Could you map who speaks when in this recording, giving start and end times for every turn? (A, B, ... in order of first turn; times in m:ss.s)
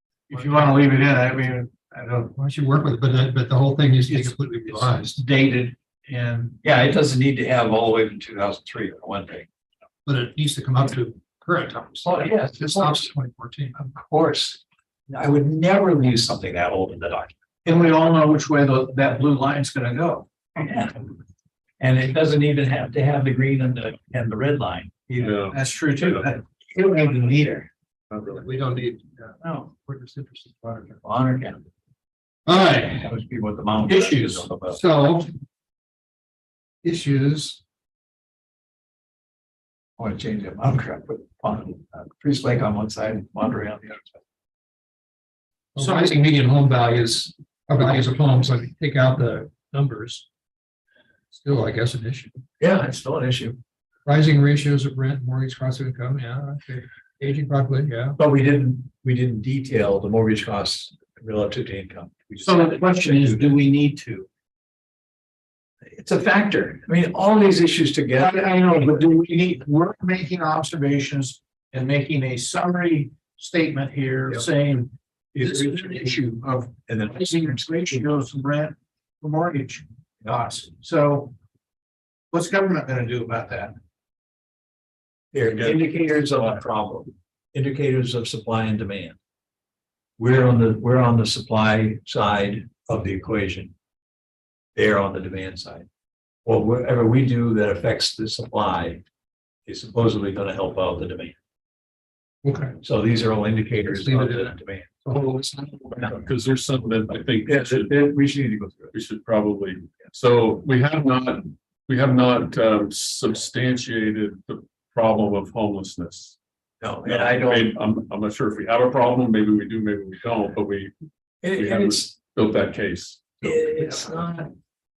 0:00.3-0:02.3 A
0:00.3-0:00.8 B
0:02.3-0:05.2 B
0:04.1-0:06.6 A
0:06.6-0:09.5 C
0:10.0-0:13.8 B
0:12.0-0:13.1 C
0:13.7-0:17.3 C
0:17.6-0:20.3 A
0:20.6-0:21.0 C
0:21.8-0:25.4 C
0:25.2-0:26.3 D
0:25.5-0:27.7 A
0:28.1-0:28.4 D
0:28.3-0:31.0 B
0:31.0-0:31.6 C
0:32.4-0:33.1 B
0:32.9-0:34.8 C
0:33.9-0:34.4 A
0:34.7-0:35.3 B
0:36.8-0:37.6 B
0:40.0-0:44.2 C
0:45.7-0:50.3 B
0:51.3-0:52.4 B
0:52.6-0:53.6 C
0:54.0-0:58.2 B
0:58.2-1:03.6 C
1:02.4-1:04.3 A
1:05.8-1:09.0 C
1:08.2-1:21.3 A
1:15.4-1:16.1 C
1:16.9-1:18.1 C
1:22.3-1:23.7 A
1:25.3-1:29.2 C
1:25.5-1:26.6 D
1:30.2-1:33.7 C
1:34.7-1:35.9 C
1:36.4-1:39.0 C
1:39.6-1:41.3 C
1:42.4-1:42.8 B
1:42.8-1:44.9 C
1:43.9-1:46.1 B
1:45.9-1:48.0 D
1:47.4-1:48.9 C
1:48.9-1:56.4 D
1:56.8-1:57.7 C
1:57.0-2:00.9 D
2:01.4-2:02.1 C
2:01.5-2:04.0 D
2:03.4-2:04.5 C